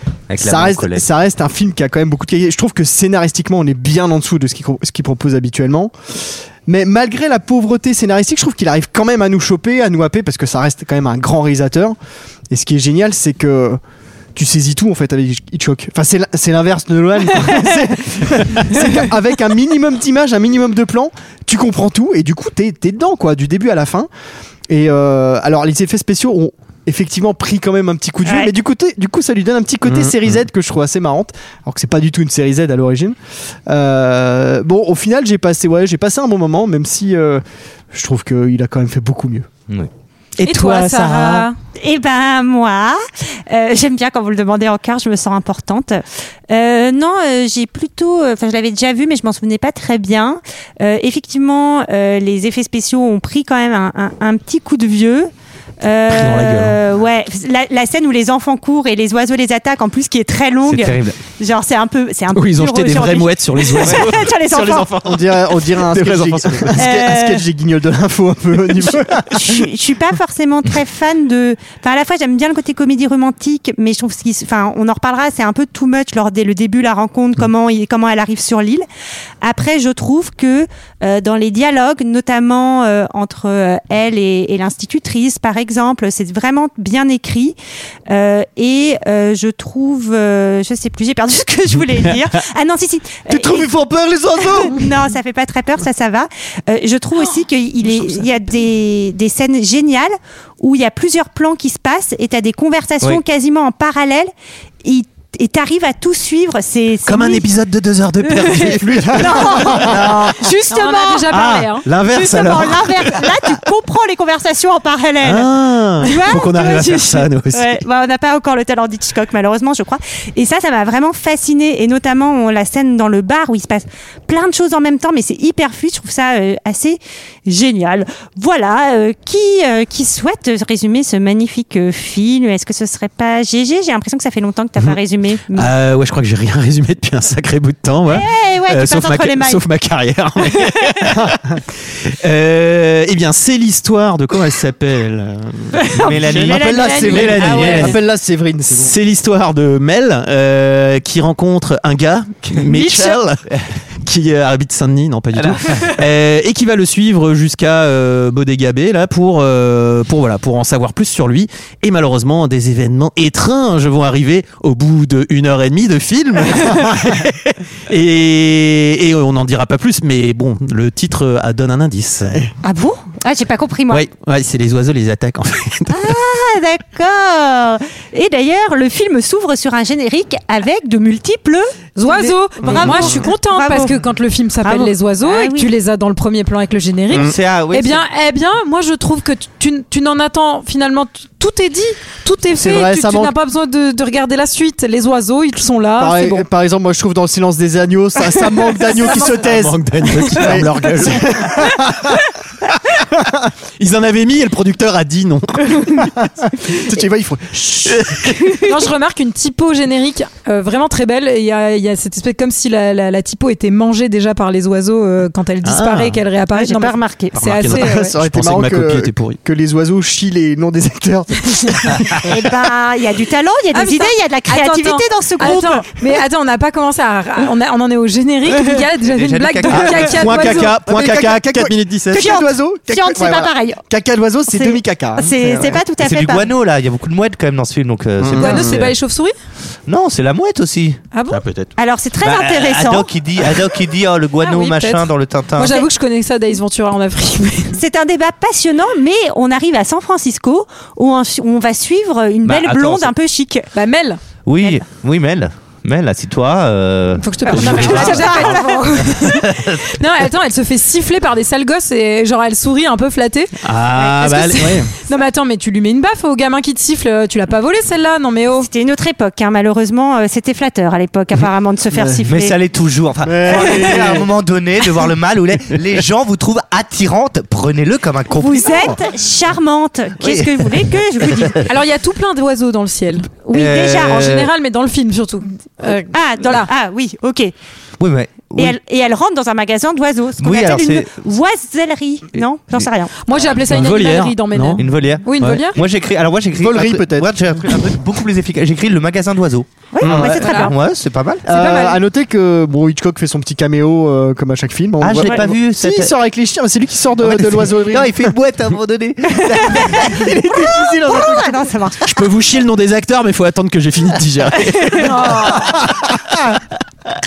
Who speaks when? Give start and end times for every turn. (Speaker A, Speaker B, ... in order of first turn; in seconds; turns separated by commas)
Speaker A: 0.3-1.1, Speaker B: 0.4-5.9, Speaker B: 6.7-11.9, Speaker B: 12.5-13.8, Speaker B: 14.3-24.1, Speaker B: 24.7-33.1, Speaker C: 28.2-28.5, Speaker D: 29.9-30.1, Speaker B: 33.7-39.5, Speaker D: 40.4-41.5, Speaker E: 40.4-41.5, Speaker C: 41.8-55.3, Speaker C: 55.8-64.9, Speaker D: 56.1-56.8, Speaker A: 60.6-61.2, Speaker D: 62.3-66.8, Speaker B: 64.5-69.6, Speaker C: 66.8-67.4, Speaker C: 69.3-78.8, Speaker C: 79.4-87.6, Speaker C: 88.1-93.7, Speaker B: 93.3-94.8, Speaker C: 94.4-104.3, Speaker C: 104.8-107.5, Speaker D: 107.0-110.3, Speaker B: 108.8-110.1, Speaker C: 109.1-111.3, Speaker E: 110.7-111.8, Speaker D: 111.3-113.5, Speaker C: 112.0-135.7, Speaker D: 115.2-117.8, Speaker D: 135.5-141.4, Speaker C: 138.1-139.6, Speaker D: 142.0-148.0, Speaker C: 145.7-147.9, Speaker A: 146.0-147.9, Speaker B: 146.5-148.9, Speaker D: 148.8-153.5, Speaker C: 152.7-153.1, Speaker D: 154.0-172.5, Speaker A: 155.3-155.8, Speaker C: 172.6-174.1, Speaker D: 173.9-176.2, Speaker C: 175.9-183.9, Speaker E: 181.9-196.4, Speaker D: 182.7-183.2, Speaker C: 184.6-185.7, Speaker D: 187.1-187.3, Speaker A: 187.1-188.0, Speaker B: 192.5-193.3, Speaker B: 196.0-202.1, Speaker E: 198.9-199.3, Speaker D: 199.1-201.7, Speaker D: 203.8-206.3, Speaker B: 206.7-208.2, Speaker D: 207.9-208.7, Speaker E: 208.6-218.1, Speaker D: 215.6-216.2, Speaker C: 216.5-217.4, Speaker D: 217.3-219.4, Speaker B: 217.7-222.0, Speaker C: 222.2-225.9, Speaker E: 223.7-230.8, Speaker A: 228.5-230.5, Speaker D: 229.7-232.3, Speaker B: 230.8-235.8, Speaker C: 232.1-233.8, Speaker C: 234.5-236.5, Speaker A: 236.0-238.9, Speaker D: 238.2-238.8, Speaker E: 238.3-239.3, Speaker A: 239.9-241.0, Speaker E: 241.1-241.4, Speaker D: 241.3-241.7, Speaker C: 241.8-243.1, Speaker A: 242.2-245.8, Speaker E: 244.4-247.8, Speaker C: 247.8-253.7, Speaker A: 252.4-253.1, Speaker E: 253.7-254.2, Speaker A: 254.4-258.3, Speaker E: 257.2-268.7, Speaker D: 257.5-258.5, Speaker C: 257.6-258.8, Speaker A: 259.1-259.8, Speaker D: 263.6-264.9, Speaker C: 268.6-272.5, Speaker A: 272.3-279.0, Speaker B: 273.2-274.3, Speaker C: 278.4-281.6, Speaker A: 280.2-281.5, Speaker E: 281.6-286.7, Speaker C: 283.5-284.4, Speaker A: 283.5-284.1, Speaker C: 286.1-287.5, Speaker A: 288.0-288.8, Speaker C: 288.6-293.1, Speaker A: 290.4-291.1, Speaker E: 293.2-295.8, Speaker D: 293.6-295.6, Speaker A: 294.8-301.4, Speaker B: 296.6-297.3, Speaker C: 299.9-300.7, Speaker D: 300.0-300.4, Speaker E: 300.4-300.7, Speaker B: 301.5-308.2, Speaker E: 301.5-302.0, Speaker A: 305.0-306.1, Speaker A: 307.2-310.8, Speaker B: 310.6-311.5, Speaker C: 310.8-312.0, Speaker D: 312.0-316.6, Speaker E: 315.0-315.6